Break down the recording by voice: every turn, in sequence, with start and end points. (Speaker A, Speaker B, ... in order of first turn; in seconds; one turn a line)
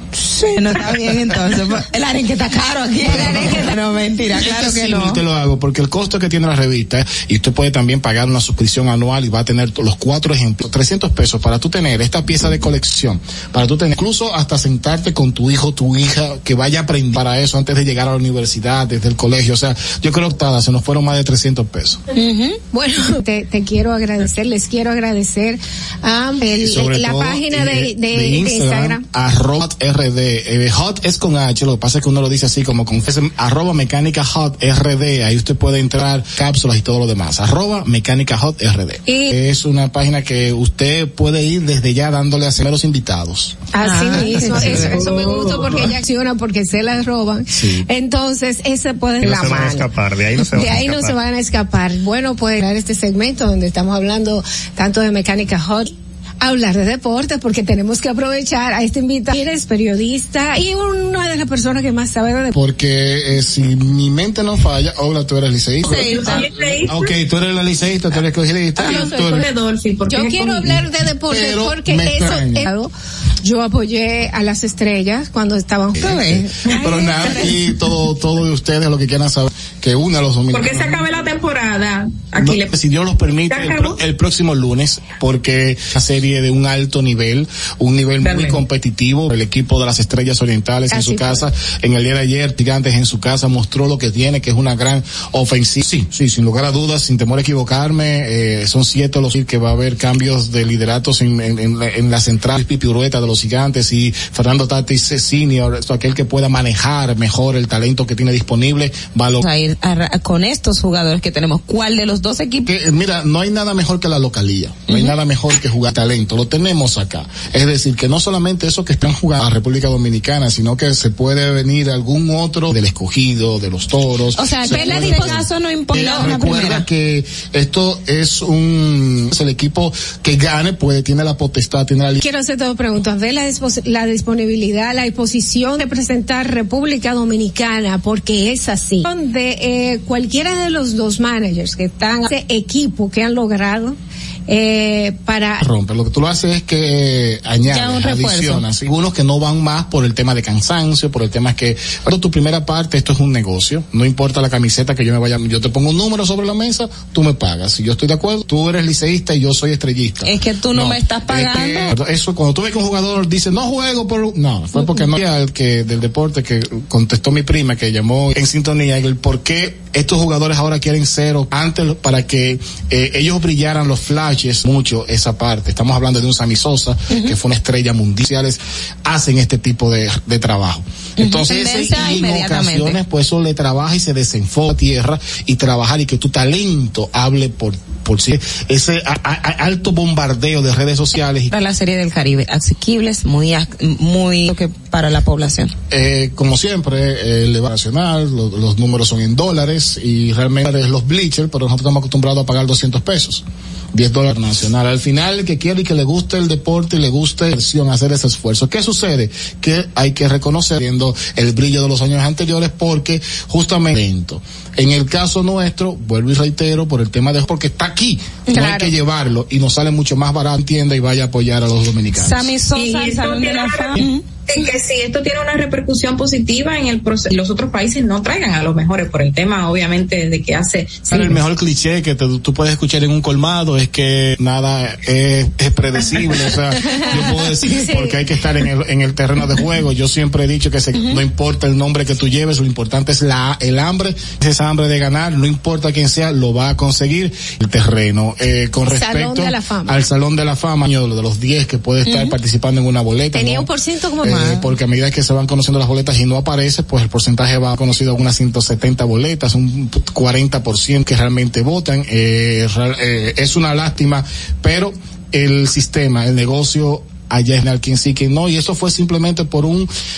Speaker A: 0.2-5.2
Speaker B: 3.0-3.7
Speaker B: 4.3-22.0
Speaker A: 22.1-22.6
Speaker C: 22.7-29.0
Speaker B: 26.6-43.6
Speaker C: 39.1-39.3
Speaker C: 43.7-49.9
Speaker A: 43.8-45.0
Speaker B: 44.2-44.9
Speaker D: 44.8-45.9
Speaker B: 47.5-47.9
Speaker E: 49.2-51.1
Speaker C: 50.5-62.5
Speaker B: 62.5-69.5
Speaker A: 65.8-66.4
Speaker D: 65.8-67.1
Speaker C: 68.8-69.5
Speaker D: 68.8-70.8
Speaker C: 70.1-77.0
Speaker B: 71.3-72.7
Speaker A: 76.0-77.5
Speaker B: 76.0-81.0
Speaker D: 80.5-82.7
Speaker B: 82.4-109.4
Speaker D: 83.5-84.0
Speaker D: 88.2-88.6
Speaker C: 90.9-91.4
Speaker A: 109.4-112.7
Speaker B: 112.7-132.2
Speaker A: 114.9-115.1
Speaker A: 124.3-126.8
Speaker C: 124.7-125.3
Speaker C: 132.2-144.0
Speaker C: 144.5-145.6
Speaker B: 145.6-191.5
Speaker A: 147.7-148.6
Speaker A: 160.2-161.9
Speaker A: 181.2-183.0
Speaker A: 191.5-195.7
Speaker B: 195.9-222.4
Speaker A: 218.5-218.9
Speaker A: 222.2-224.2
Speaker D: 222.7-231.3
Speaker B: 231.1-253.7
Speaker C: 237.1-238.1
Speaker C: 248.9-250.0
Speaker C: 253.3-254.7
Speaker B: 254.2-269.9